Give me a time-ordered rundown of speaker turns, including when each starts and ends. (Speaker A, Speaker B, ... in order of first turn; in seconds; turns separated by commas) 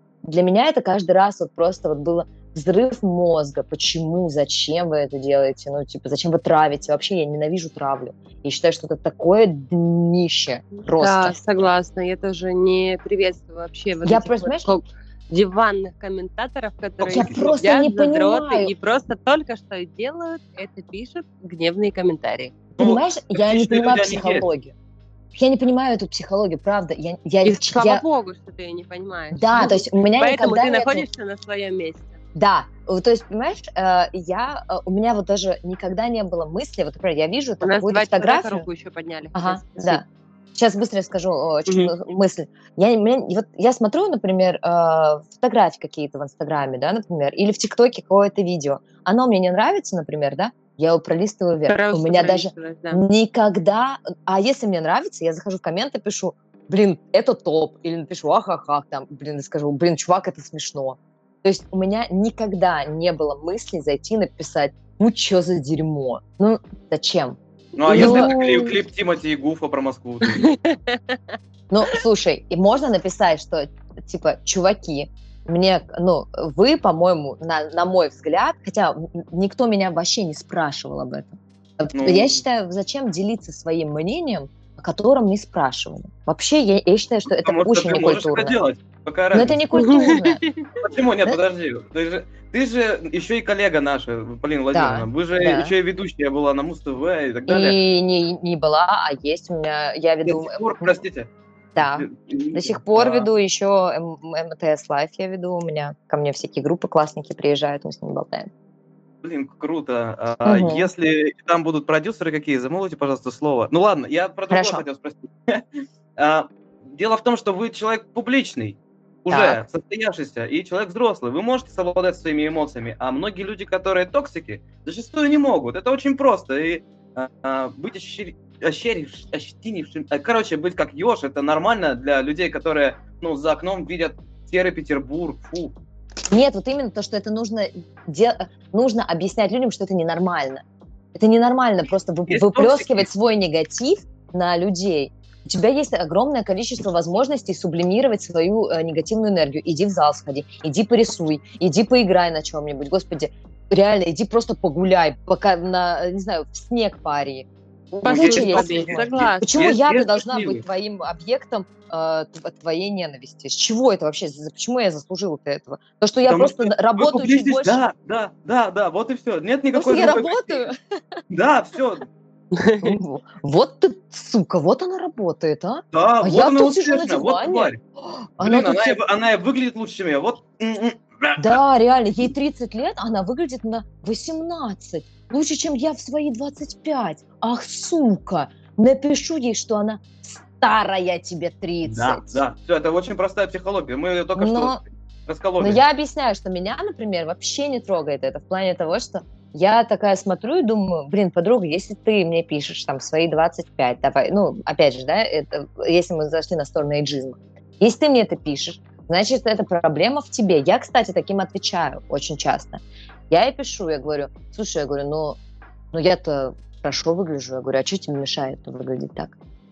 Speaker A: 0.2-11.4, Speaker B: 11.0-22.6, Speaker A: 14.0-14.7, Speaker C: 17.0-17.5, Speaker A: 17.1-18.7, Speaker C: 22.8-24.5, Speaker A: 22.8-24.7, Speaker A: 25.3-28.0, Speaker B: 27.4-32.2, Speaker A: 29.3-31.1, Speaker A: 32.4-38.7, Speaker B: 37.6-40.0, Speaker A: 39.3-40.0, Speaker A: 40.5-68.7, Speaker B: 41.7-41.9, Speaker B: 51.7-53.0, Speaker C: 67.8-70.5, Speaker B: 67.9-68.7, Speaker B: 70.4-71.4, Speaker A: 71.7-88.6, Speaker C: 81.9-82.4, Speaker C: 87.3-89.6, Speaker A: 89.3-90.4, Speaker B: 89.8-90.6, Speaker C: 90.8-97.8, Speaker A: 94.7-95.7, Speaker A: 97.5-101.0, Speaker C: 100.2-103.3, Speaker A: 101.8-108.5, Speaker C: 109.2-115.6, Speaker A: 110.5-110.9, Speaker A: 114.5-114.8, Speaker C: 116.2-135.8, Speaker A: 119.3-119.6, Speaker A: 136.3-140.6, Speaker A: 141.2-167.8, Speaker C: 142.3-143.1, Speaker B: 158.0-159.6, Speaker C: 158.1-160.6, Speaker C: 166.3-170.6, Speaker A: 169.7-170.8, Speaker C: 171.3-172.1, Speaker B: 172.6-172.9, Speaker A: 172.8-179.0, Speaker C: 175.9-177.8, Speaker C: 178.4-181.6, Speaker A: 181.4-192.4, Speaker C: 191.8-195.8, Speaker A: 194.4-194.8, Speaker A: 195.6-215.4, Speaker A: 215.9-219.3